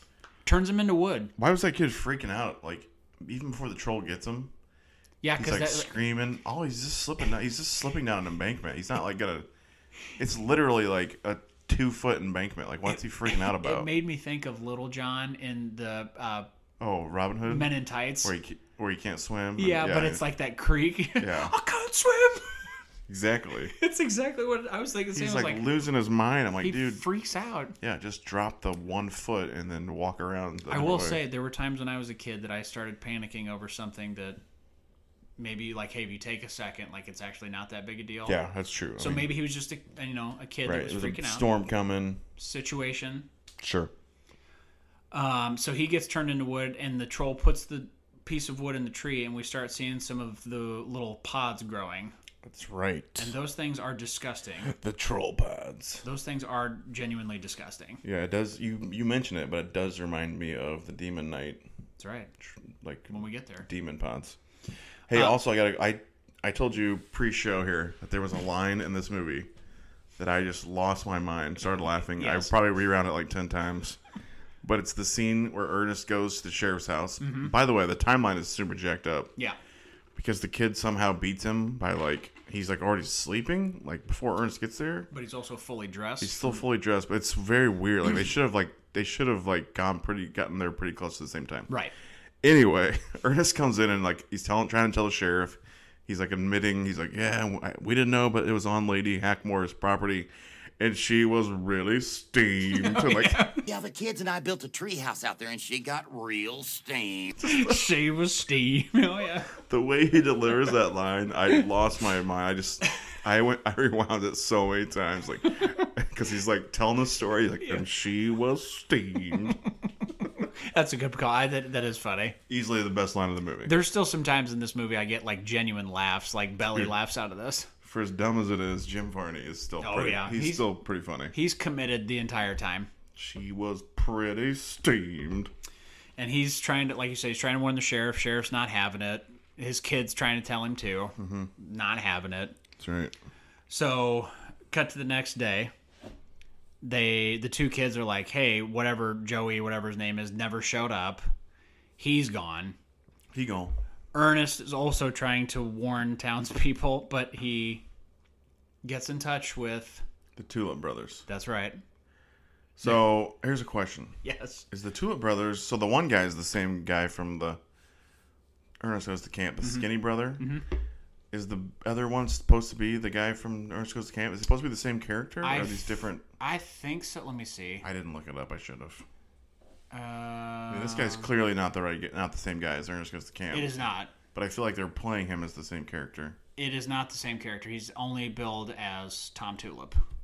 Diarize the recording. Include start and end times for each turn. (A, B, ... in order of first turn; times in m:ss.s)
0:00.4-0:01.3 A
0:01.4-0:04.5 B
0:05.2-0:05.9 A
0:05.4-0:09.5 B
0:10.2-0:13.9 B
0:12.9-0:16.5 A
0:16.8-0:17.7 B
0:17.5-0:18.3 A
0:18.2-0:20.2 B
0:19.6-0:22.7 A
0:21.2-0:21.5 B
0:23.1-0:23.7 B
0:23.7-0:25.6 A
0:25.1-0:27.0 B
0:26.6-0:27.7 A
0:27.8-0:31.2 B
0:30.7-0:34.4 A
0:35.4-0:38.4 A
0:38.2-0:39.3 B
0:39.0-0:41.5 A
0:40.6-0:42.2 B
0:42.4-0:43.3 A
0:43.6-0:43.9 B
0:45.1-0:52.1 A
0:52.4-0:53.3 B
0:53.2-0:54.7 A
0:54.6-0:56.0 B
0:56.0-0:58.0 A
0:58.0-1:01.6 B
1:02.0-1:02.3 A
1:02.4-1:04.4 B
1:03.1-1:03.7 A
1:05.1-1:09.5 B
1:10.2-1:14.0 B
1:12.2-1:12.5 A
1:14.6-1:19.3 B
1:17.2-1:17.5 A
1:20.1-1:25.1 B
1:25.1-1:26.6 A
1:26.2-1:31.7 B
1:32.4-1:43.4 B
1:42.7-1:43.7 A
1:43.7-1:47.4 C
1:47.4-1:47.8 B
1:47.4-1:49.5 A
1:49.7-1:59.6 B
2:00.2-2:02.4 A
2:02.5-2:03.8 B
2:03.6-2:07.7 A
2:07.8-2:11.3 B
2:09.8-2:10.6 A
2:11.3-2:12.9 A
2:13.1-2:15.5 B
2:16.2-2:22.6 A
2:21.2-2:21.5 B
2:22.8-2:23.1 B
2:23.7-2:25.7 A
2:26.8-2:31.2 A
2:32.0-2:32.8 A
2:33.3-2:33.8 B
2:34.1-2:37.8 A
2:38.8-2:40.0 A
2:40.4-2:41.2 B
2:41.3-2:41.8 A
2:42.8-2:44.2 B
2:44.2-2:44.6 A
2:44.7-2:47.6 B
2:48.8-2:50.4 B
2:49.6-2:50.6 A
2:51.3-2:56.2 B
2:55.4-2:57.8 A
2:57.8-2:59.0 B
2:59.9-3:01.3 A
3:00.7-3:03.7 B
3:03.5-3:04.1 A
3:04.3-3:06.4 B
3:06.6-3:10.0 A